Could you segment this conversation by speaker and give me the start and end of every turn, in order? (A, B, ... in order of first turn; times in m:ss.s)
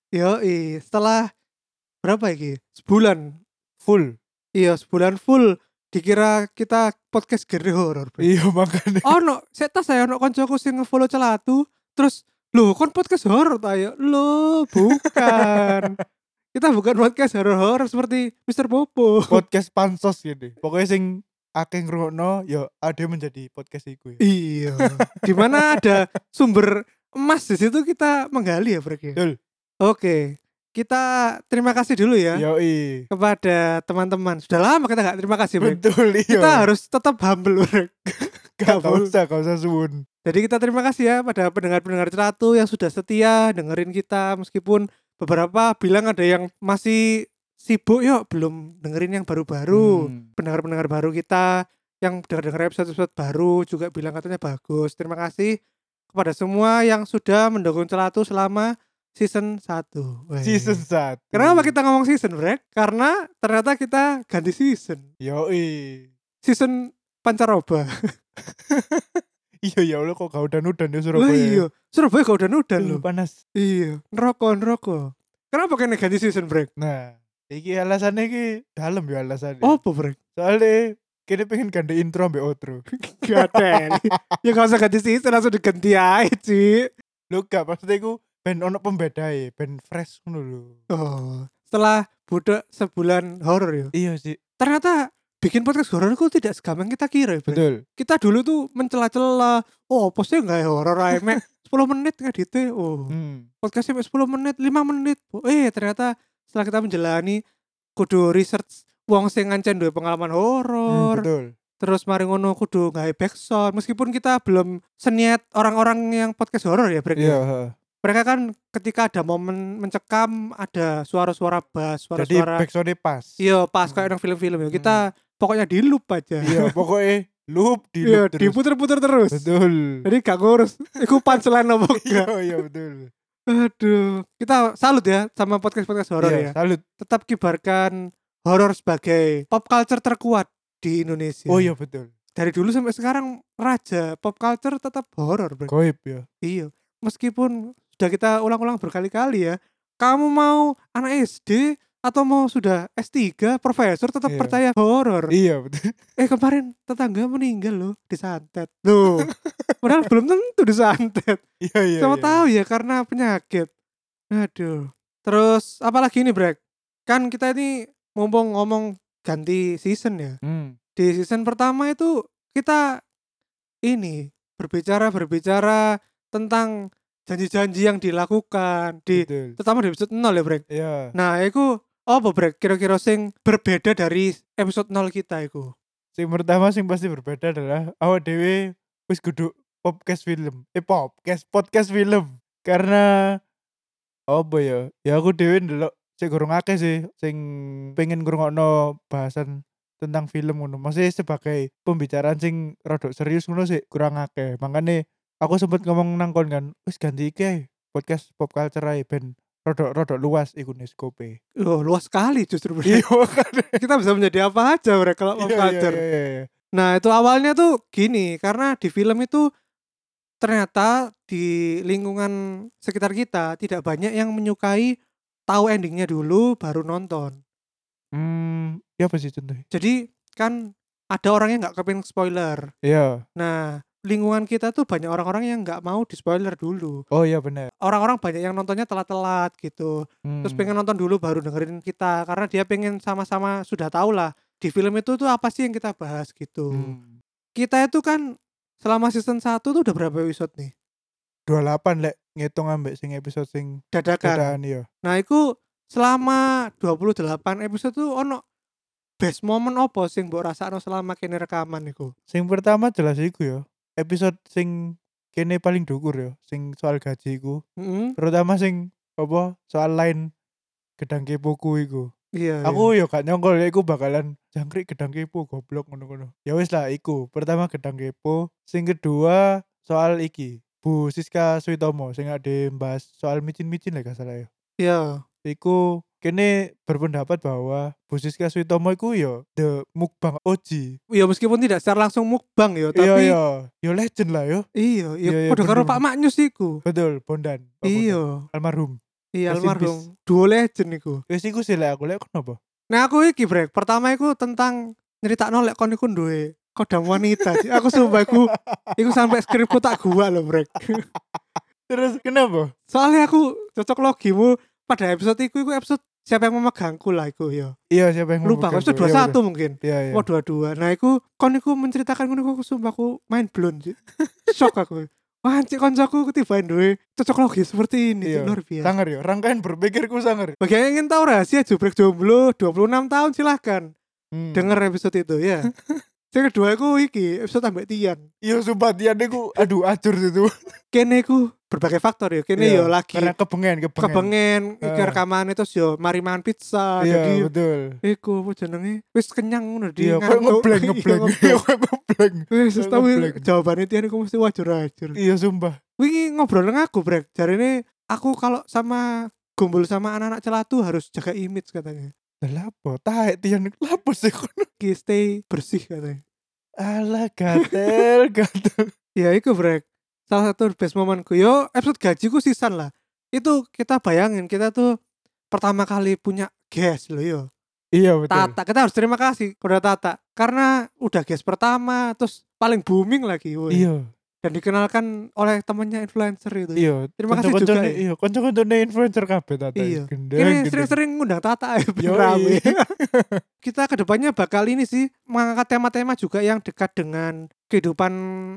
0:00.2-0:01.2 A
0:02.0-0:03.2 A
0:03.8-0:04.1 B
0:04.6-0:08.3 A
0:08.2-0:09.2 B
0:09.1-0:15.9 A
0:15.0-0:15.9 B
0:16.5-0:19.4 A
0:19.3-0:24.2 B
0:24.2-0:29.2 A
0:24.8-0:25.9 B
0:29.8-0:30.2 A
0:30.8-0:32.4 A
0:32.3-0:33.0 B
0:33.1-0:37.9 A
0:35.6-0:36.7 B
0:38.2-0:40.0 B
0:38.6-0:39.1 A
0:40.2-0:47.0 A
0:47.6-0:51.4 A
0:49.7-0:50.2 B
0:52.0-0:55.5 A
0:56.1-1:00.8 A
1:00.4-1:01.7 B
1:01.3-1:05.0 A
1:05.2-1:06.1 B
1:06.4-1:07.8 A
1:08.5-1:11.6 B
1:11.2-1:13.0 A
1:12.8-1:13.3 B
1:13.6-1:15.0 A
1:15.5-1:16.7 A
1:16.8-1:19.8 B
1:19.6-1:20.2 A
1:20.4-1:24.1 B
1:23.1-1:26.8 A
1:27.3-1:30.8 B
1:30.9-1:33.9 A
1:33.9-1:34.4 B
1:34.6-1:43.1 A
1:37.5-1:37.8 B
1:41.1-1:41.4 B
1:43.1-1:43.4 B
1:43.6-1:47.4 A
1:48.0-1:51.3 A
1:50.9-1:51.5 B
1:51.8-1:57.4 A
1:57.2-1:57.7 B
1:58.0-2:02.6 A
2:02.2-2:04.1 B
2:03.4-2:06.7 A
2:04.7-2:05.0 B
2:06.4-2:08.6 B
2:08.0-2:09.5 A
2:09.3-2:10.0 B
2:10.0-2:12.3 A
2:11.9-2:13.1 B
2:13.5-2:17.9 A
2:16.2-2:16.8 B
2:18.5-2:21.7 A
2:21.5-2:22.1 B
2:22.4-2:25.7 A
2:25.7-2:26.2 B
2:26.4-2:35.3 A
2:34.3-2:34.6 B
2:35.3-2:35.9 B
2:36.2-2:39.3 A
2:39.4-2:39.8 B
2:39.8-2:41.4 A
2:41.6-2:42.4 B
2:42.0-2:43.7 A
2:44.3-2:50.4 A
2:50.4-2:50.7 B
2:51.0-2:52.8 A
2:53.9-2:55.8 A
2:56.3-2:56.7 A
2:57.3-3:00.6 A
2:59.1-2:59.6 B
3:00.7-3:01.1 B
3:01.2-3:05.7 A
3:06.1-3:13.4 B
3:14.3-3:31.4 B
3:31.6-3:33.0 A
3:32.8-3:33.8 B
3:33.8-3:36.0 A
3:35.4-3:36.5 B
3:36.8-3:39.4 A
3:40.4-3:44.9 A
3:45.5-3:47.4 A
3:48.1-3:49.6 B
3:49.7-3:50.5 A
3:51.1-3:52.6 A
3:52.8-3:53.2 B
3:53.4-3:57.0 A
3:57.1-3:57.7 B
3:57.8-4:06.9 A
4:00.3-4:00.7 B
4:06.7-4:07.2 B
4:07.6-4:08.2 A
4:08.8-4:10.7 A
4:11.5-4:14.8 B
4:13.9-4:15.4 A
4:15.9-4:18.4 A
4:19.2-4:22.1 A
4:22.3-4:27.6 B
4:27.8-4:28.1 A
4:28.2-4:30.3 B
4:31.0-4:32.1 B
4:32.4-4:32.9 A
4:32.6-4:44.5 B
4:44.8-4:45.1 A
4:45.4-4:50.9 B
4:51.2-4:53.4 A
4:52.9-4:54.6 B
4:54.8-4:56.8 A
4:55.2-4:56.0 B
4:56.8-4:59.0 B
4:57.8-4:58.3 A
4:59.4-5:01.2 A
4:59.5-5:00.0 B
5:01.3-5:02.6 B
5:02.9-5:11.0 A
5:07.4-5:08.9 B
5:11.4-5:12.7 B
5:12.9-5:17.7 A
5:17.9-5:20.2 B
5:18.4-5:24.0 A
5:24.5-5:28.9 A
5:28.2-5:30.5 B
5:30.6-5:33.8 A
5:34.3-5:34.7 B
5:34.5-5:35.7 A
5:36.3-5:38.2 A
5:38.4-5:40.5 B
5:40.9-5:43.3 A
5:42.6-5:44.3 B
5:44.0-5:47.5 A
5:44.8-5:45.2 B
5:47.0-5:47.9 B
5:48.0-5:51.6 A
5:50.0-5:53.4 B
5:52.5-5:55.2 A
5:55.2-5:55.8 B
5:56.0-6:02.1 A
6:02.4-6:04.7 B
6:04.8-6:06.2 A
6:06.8-6:08.9 B
6:09.2-6:14.9 A
6:15.5-6:17.4 A
6:18.0-6:18.6 B
6:18.3-6:23.8 A
6:23.7-6:24.0 B
6:24.4-6:28.0 A
6:26.8-6:30.9 B
6:29.8-6:32.9 A
6:32.0-6:33.4 B
6:33.6-6:38.1 A